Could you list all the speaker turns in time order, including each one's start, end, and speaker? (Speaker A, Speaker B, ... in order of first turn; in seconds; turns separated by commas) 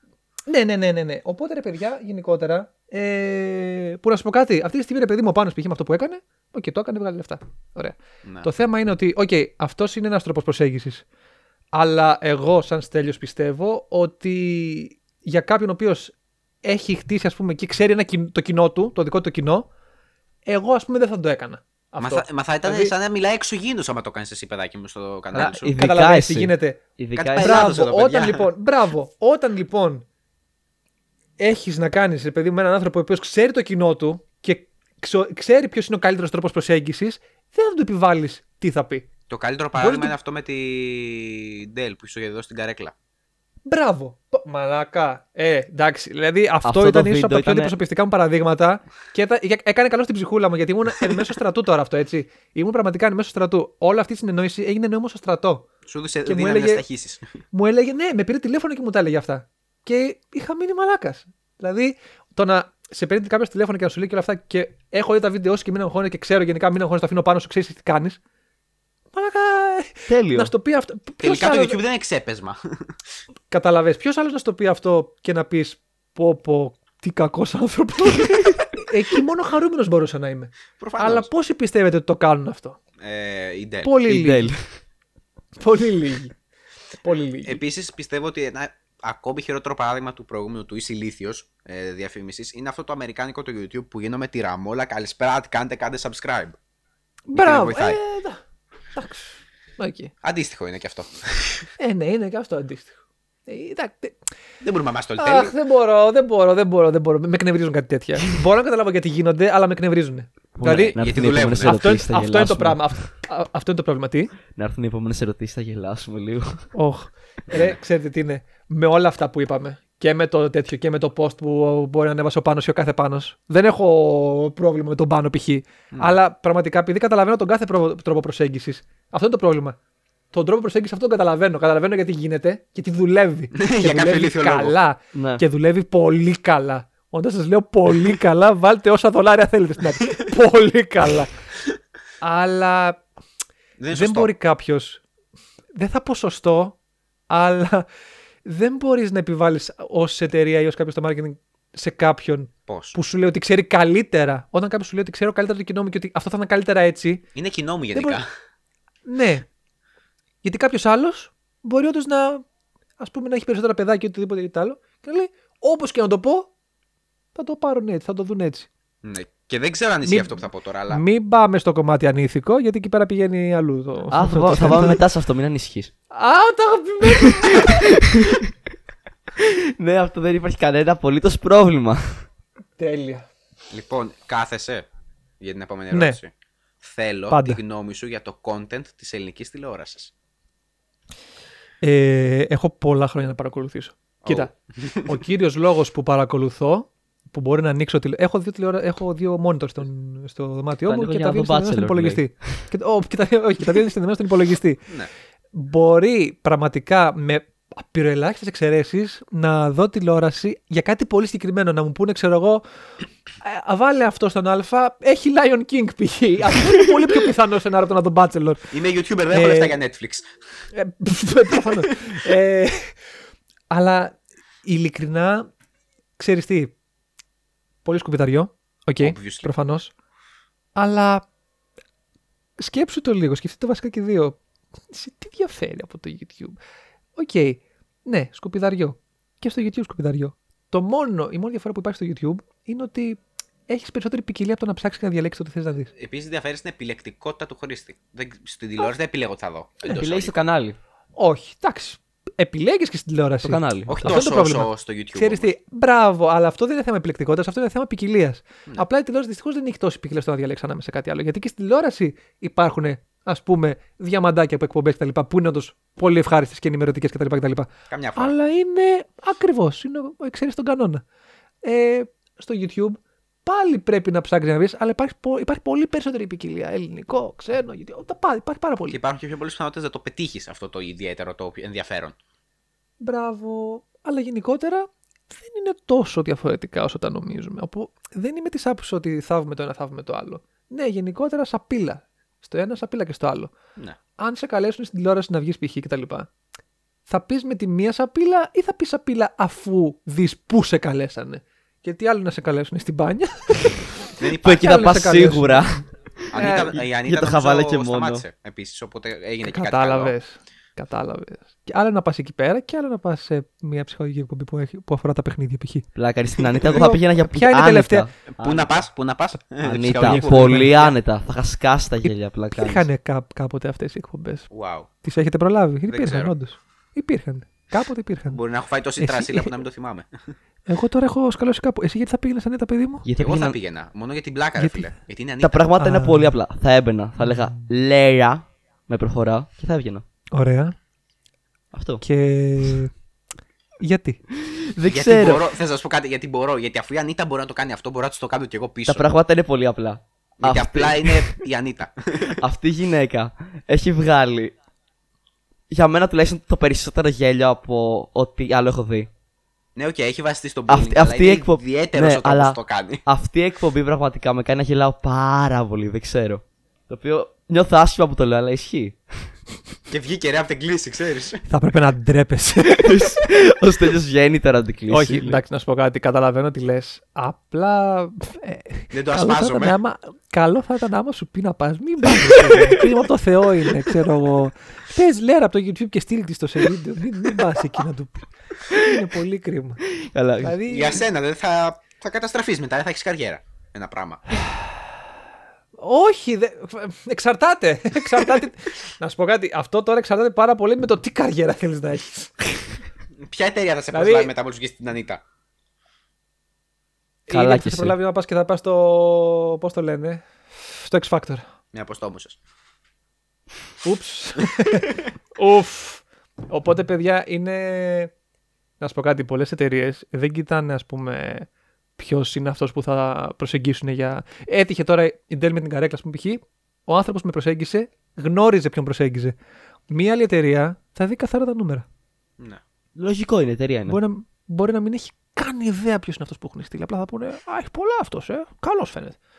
Speaker A: 0.5-11.0, Speaker A: 11.7-19.7, Speaker A: 20.4-22.9, Speaker B: 22.0-25.8, Speaker A: 25.3-26.8, Speaker C: 25.4-27.8, Speaker B: 27.1-28.5, Speaker A: 27.4-30.0, Speaker A: 31.4-39.1, Speaker B: 39.3-42.9, Speaker A: 39.7-40.1, Speaker A: 43.6-55.7, Speaker C: 46.6-47.7, Speaker B: 55.9-57.2, Speaker A: 56.2-56.8, Speaker A: 57.5-68.2, Speaker A: 69.1-71.8, Speaker C: 70.1-70.5, Speaker B: 71.2-72.9, Speaker A: 73.5-82.8, Speaker B: 80.8-81.3, Speaker B: 83.0-83.9, Speaker A: 83.8-84.5, Speaker C: 84.1-84.6, Speaker A: 85.6-86.3, Speaker A: 87.0-87.6, Speaker B: 87.4-96.6, Speaker A: 97.3-98.4, Speaker B: 97.3-98.0, Speaker A: 98.9-100.1, Speaker B: 100.2-101.7, Speaker A: 101.8-104.2, Speaker B: 104.6-105.5, Speaker A: 105.2-111.0, Speaker C: 110.6-113.1, Speaker B: 111.0-111.8, Speaker A: 111.6-114.3, Speaker C: 114.5-116.7, Speaker A: 116.7-129.8, Speaker A: 130.3-141.3, Speaker B: 133.5-134.8, Speaker C: 135.1-135.4, Speaker A: 142.2-143.0, Speaker B: 143.8-144.3, Speaker A: 143.9-145.0, Speaker A: 145.7-146.8, Speaker A: 147.3-147.8, Speaker A: 148.4-157.2, Speaker B: 152.7-152.9, Speaker B: 157.3-158.3, Speaker A: 157.9-158.2, Speaker A: 159.1-159.5, Speaker A: 160.4-162.4, Speaker A: 163.0-166.5, Speaker A: 167.3-168.7, Speaker B: 169.0-171.0, Speaker A: 170.1-175.0, Speaker C: 174.1-175.9, Speaker A: 176.1-178.0, Speaker C: 177.1-178.4, Speaker C: 179.4-182.2, Speaker A: 182.8-183.3, Speaker B: 183.7-184.8, Speaker B: 185.4-190.1, Speaker A: 185.9-186.2, Speaker A: 187.3-187.6, Speaker A: 191.8-194.5, Speaker B: 194.2-195.1, Speaker A: 195.0-204.8, Speaker C: 200.9-202.6, Speaker A: 205.5-212.6, Speaker A: 213.4-218.7, Speaker B: 218.7-220.3, Speaker A: 219.3-219.8, Speaker A: 220.7-223.0, Speaker A: 223.7-225.5, Speaker A: 226.2-226.7, Speaker A: 227.8-229.9, Speaker B: 229.0-229.5, Speaker A: 230.8-231.2, Speaker A: 232.6-234.4, Speaker A: 234.9-236.6, Speaker A: 237.2-245.9, Speaker B: 245.9-250.4, Speaker C: 249.9-250.8, Speaker A: 251.2-271.0, Speaker C: 253.4-254.1, Speaker B: 253.9-255.5, Speaker B: 267.9-268.3, Speaker A: 271.6-279.0, Speaker B: 278.9-282.1, Speaker A: 283.0-293.5, Speaker A: 294.2-296.3, Speaker A: 297.1-305.7, Speaker B: 304.2-304.9, Speaker C: 304.4-308.2, Speaker B: 306.3-310.1, Speaker A: 306.3-306.7, Speaker A: 309.4-315.9, Speaker C: 315.9-318.9, Speaker A: 316.6-318.1, Speaker B: 318.3-320.9, Speaker C: 319.6-322.9, Speaker A: 319.9-320.7, Speaker A: 322.0-324.5, Speaker B: 324.5-324.9, Speaker A: 325.0-328.4, Speaker B: 325.9-326.3, Speaker B: 328.3-330.3, Speaker A: 329.0-329.6, Speaker A: 330.7-333.0, Speaker C: 333.0-333.6, Speaker B: 333.2-335.7, Speaker A: 334.6-334.9, Speaker C: 335.4-340.0, Speaker A: 335.8-336.3, Speaker A: 337.2-337.6, Speaker A: 340.3-340.7, Speaker C: 341.7-342.0, Speaker A: 342.0-342.9, Speaker A: 343.8-344.2, Speaker C: 344.4-345.4, Speaker B: 344.9-349.1, Speaker C: 348.9-351.4, Speaker B: 350.4-352.4, Speaker C: 352.4-354.5, Speaker C: 355.7-359.1, Speaker B: 359.8-363.0, Speaker C: 360.7-369.3, Speaker B: 369.9-371.4, Speaker A: 371.5-373.2, Speaker C: 372.7-375.4, Speaker A: 374.9-389.8, Speaker B: 378.9-379.8, Speaker C: 382.2-382.9, Speaker C: 389.9-390.6, Speaker A: 390.4-391.0, Speaker B: 390.6-394.2, Speaker A: 395.8-402.4, Speaker B: 403.2-405.2, Speaker A: 403.9-404.3, Speaker A: 407.3-411.4, Speaker C: 407.3-407.9, Speaker B: 411.7-412.4, Speaker A: 413.8-418.1, Speaker A: 418.8-429.3, Speaker A: 429.9-431.9, Speaker C: 432.9-434.0, Speaker A: 433.9-439.2